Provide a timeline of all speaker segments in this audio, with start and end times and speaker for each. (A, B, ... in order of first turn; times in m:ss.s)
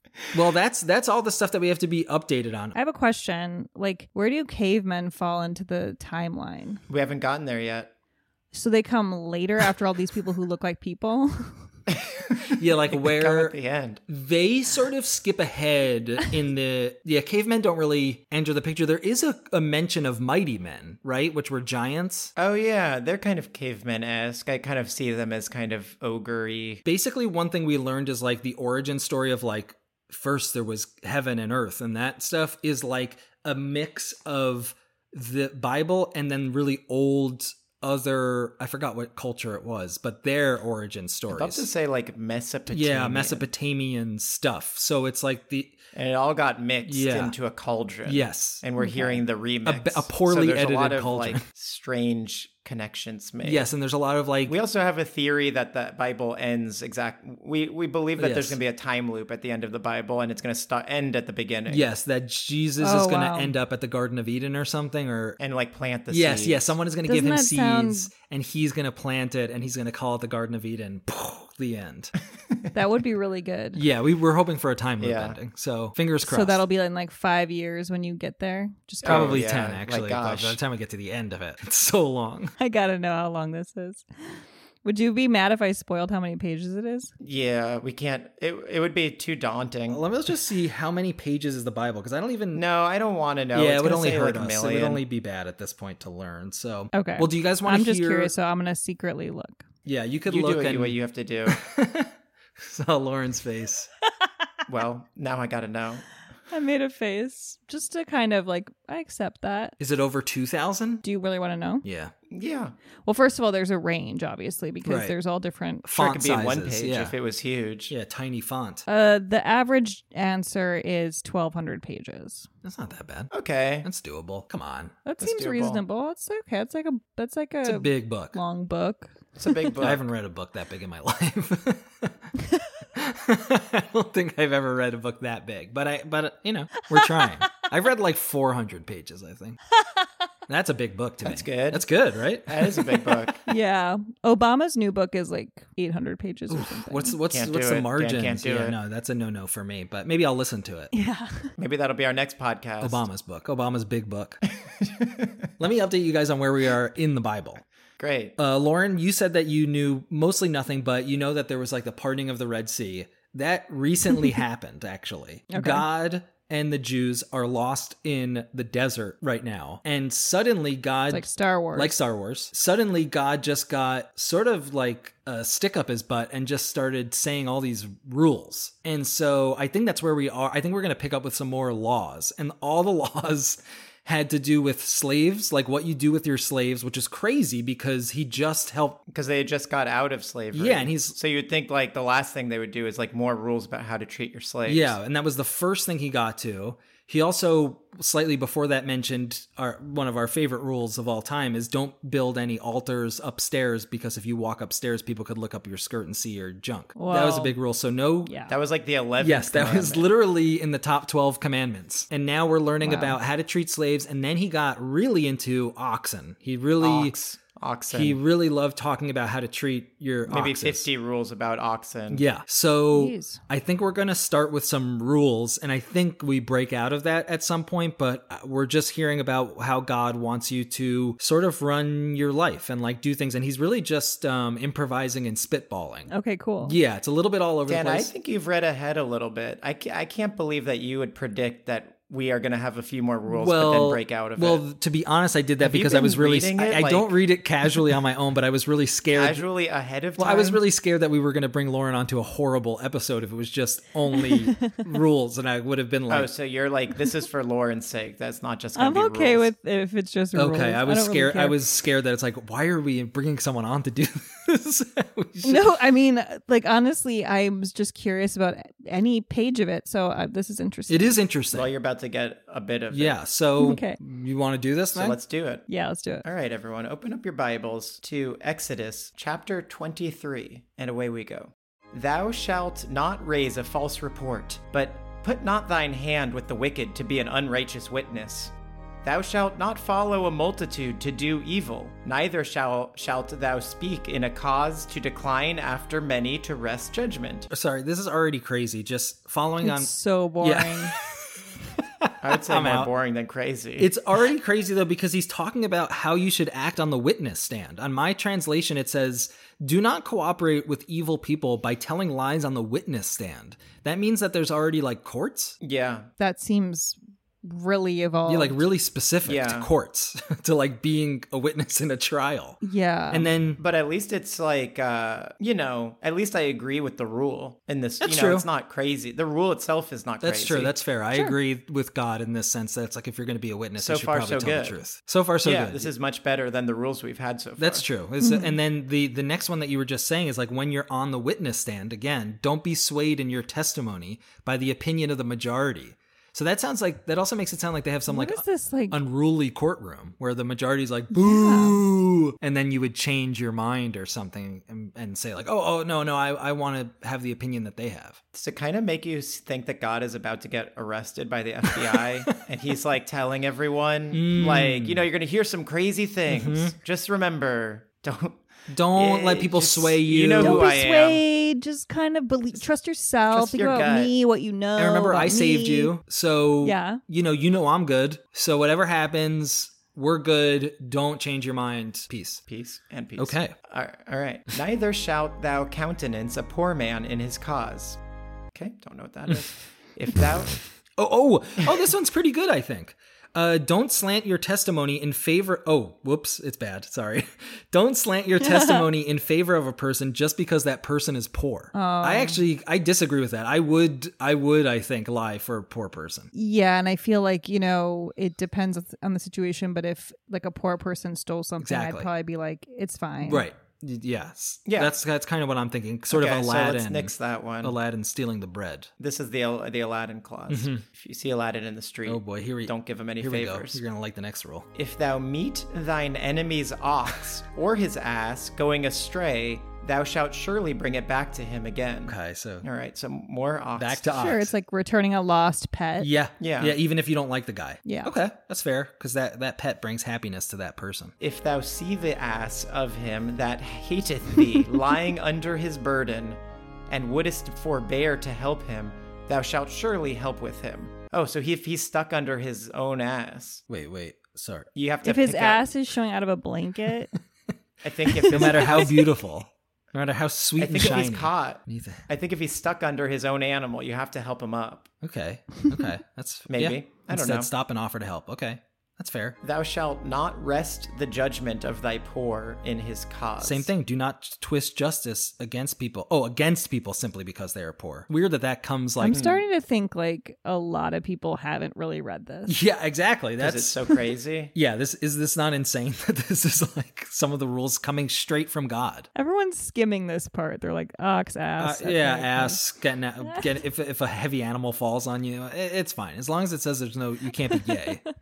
0:00.3-0:02.8 A
0:02.7-0:06.8 B
0:06.9-0:07.9 C
0:08.5-0:11.6 B
0:11.9-0:14.0 C
0:12.4-0:13.6 A
0:14.1-0:22.3 A
0:22.4-0:26.8 C
0:26.8-0:41.7 A
0:41.3-0:43.5 C
0:42.7-0:45.8 A
0:45.9-0:53.7 C
0:46.8-0:47.3 A
0:48.1-0:48.6 A
0:48.8-0:49.2 B
0:49.6-0:51.4 A
0:53.4-0:54.5 A
0:54.5-1:01.8 C
0:58.2-0:58.6 A
1:01.7-1:05.4 A
1:02.8-1:03.5 B
1:05.4-1:06.7 C
1:06.1-1:12.1 A
1:07.1-1:08.1 B
1:12.7-1:13.8 B
1:13.8-1:16.6 A
1:15.0-1:15.4 C
1:16.2-1:19.4 B
1:19.0-1:20.6 C
1:19.0-1:22.5 A
1:22.6-1:27.1 B
1:27.2-1:30.0 C
1:29.9-1:32.6 A
1:32.5-1:35.0 C
1:33.5-1:38.3 A
1:36.9-1:39.6 B
1:39.8-1:41.0 A
1:40.3-1:41.6 C
1:41.5-1:43.9 A
1:44.7-1:46.1 C
1:46.5-1:49.8 B
1:49.8-1:51.0 A
1:51.0-1:51.8 B
1:51.8-1:52.1 A
1:52.3-1:52.7 C
1:53.0-1:55.9 B
1:54.8-1:55.1 A
1:55.8-1:57.1 A
1:55.9-1:57.9 C
1:57.9-1:58.8 A
1:58.9-2:02.5 B
2:02.6-2:03.3 A
2:03.3-2:03.9 C
2:03.8-2:05.0 A
2:05.0-2:09.7 B
2:05.2-2:05.8 C
2:07.6-2:08.4 A
2:09.4-2:10.1 C
2:09.8-2:12.2 A
2:12.9-2:19.6 A
2:16.8-2:17.6 B
2:20.5-2:23.3 A
2:21.2-2:21.9 C
2:22.4-2:23.4 C
2:23.4-2:27.2 B
2:26.5-2:30.9 A
2:27.3-2:28.8 C
2:30.9-2:31.5 B
2:31.6-2:33.0 C
2:32.8-2:34.4 A
2:34.8-2:35.5 C
2:35.6-2:37.6 A
2:38.0-2:38.3 C
2:38.4-3:09.0 A
2:45.5-2:45.8 B
2:51.1-2:51.9 B
3:09.1-3:15.0 C
3:10.5-3:11.2 A
3:14.6-3:28.3 A
3:27.0-3:27.5 B
3:28.2-3:28.6 B
3:28.5-3:30.1 C
3:29.2-3:37.1 A
3:32.8-3:33.2 B
3:36.8-3:38.2 C
3:37.9-3:40.8 A
3:40.3-3:42.2 C
3:42.1-3:56.1 A
3:42.9-3:43.4 B
3:56.1-3:56.8 B
3:56.6-3:58.1 A
3:57.7-4:04.6 C
4:03.3-4:09.4 A
4:05.6-4:07.1 C
4:09.1-4:10.6 C
4:10.2-4:16.3 A
4:14.3-4:14.8 B
4:16.1-4:19.5 C
4:18.8-4:21.6 B
4:20.3-4:25.8 A
4:25.4-4:31.2 B
4:30.9-4:31.7 A
4:31.5-4:33.2 C
4:32.9-4:35.2 A
4:33.6-4:34.0 B
4:34.9-4:35.6 C
4:35.7-4:36.2 B
4:36.2-4:48.5 C
4:49.0-4:57.5 C
4:57.5-5:02.9 A
4:59.6-5:01.0 B
5:02.2-5:03.9 C
5:03.8-5:15.6 A
5:15.6-5:16.1 C
5:16.2-5:18.6 B
5:18.3-5:23.6 A
5:19.2-5:19.7 C
5:22.6-5:23.3 B
5:23.6-5:30.7 C
5:28.0-5:28.4 A
5:30.2-5:35.9 A
5:33.8-5:34.8 C
5:35.4-5:37.9 C
5:37.6-5:58.2 A
5:38.2-5:38.5 B
5:48.1-5:49.0 B
5:51.1-5:51.8 B
5:58.3-6:11.2 C
6:04.1-6:05.0 A
6:06.3-6:06.7 A
6:08.7-6:10.7 A
6:10.4-6:15.9 B
6:13.3-6:14.1 C
6:14.8-6:22.4 A
6:16.6-6:17.0 B
6:22.5-6:28.0 C
6:23.2-6:23.5 A
6:28.5-6:30.6 C
6:31.0-6:46.3 A
6:38.4-6:38.8 B
6:41.7-6:42.4 B
6:46.3-6:53.5 B
6:51.6-6:52.1 A
6:53.2-6:58.9 A
6:54.6-6:54.9 C
6:56.1-6:57.7 C
6:59.0-7:03.8 C
7:00.5-7:00.8 A
7:02.0-7:04.7 A
7:04.7-7:14.1 C
7:12.0-7:12.6 A
7:13.8-7:14.5 A
7:14.1-7:16.1 B
7:16.0-7:21.1 A
7:16.4-7:16.8 C
7:17.8-7:18.1 B
7:21.2-7:26.4 C
7:26.9-7:33.6 C
7:33.7-7:34.7 A
7:34.7-7:35.6 C
7:35.0-7:37.1 B
7:37.8-7:39.1 C
7:38.2-7:42.0 A
7:38.4-7:39.0 B
7:40.6-7:44.9 C
7:45.0-7:49.4 A
7:46.5-7:47.5 C
7:49.4-7:53.7 C
7:53.4-7:59.2 A
7:59.0-8:02.6 B
7:59.1-7:59.4 C
8:02.5-8:04.0 A
8:03.4-8:04.5 C
8:04.5-8:09.1 A
8:09.1-8:12.6 B
8:11.6-8:18.0 A
8:13.2-8:13.5 B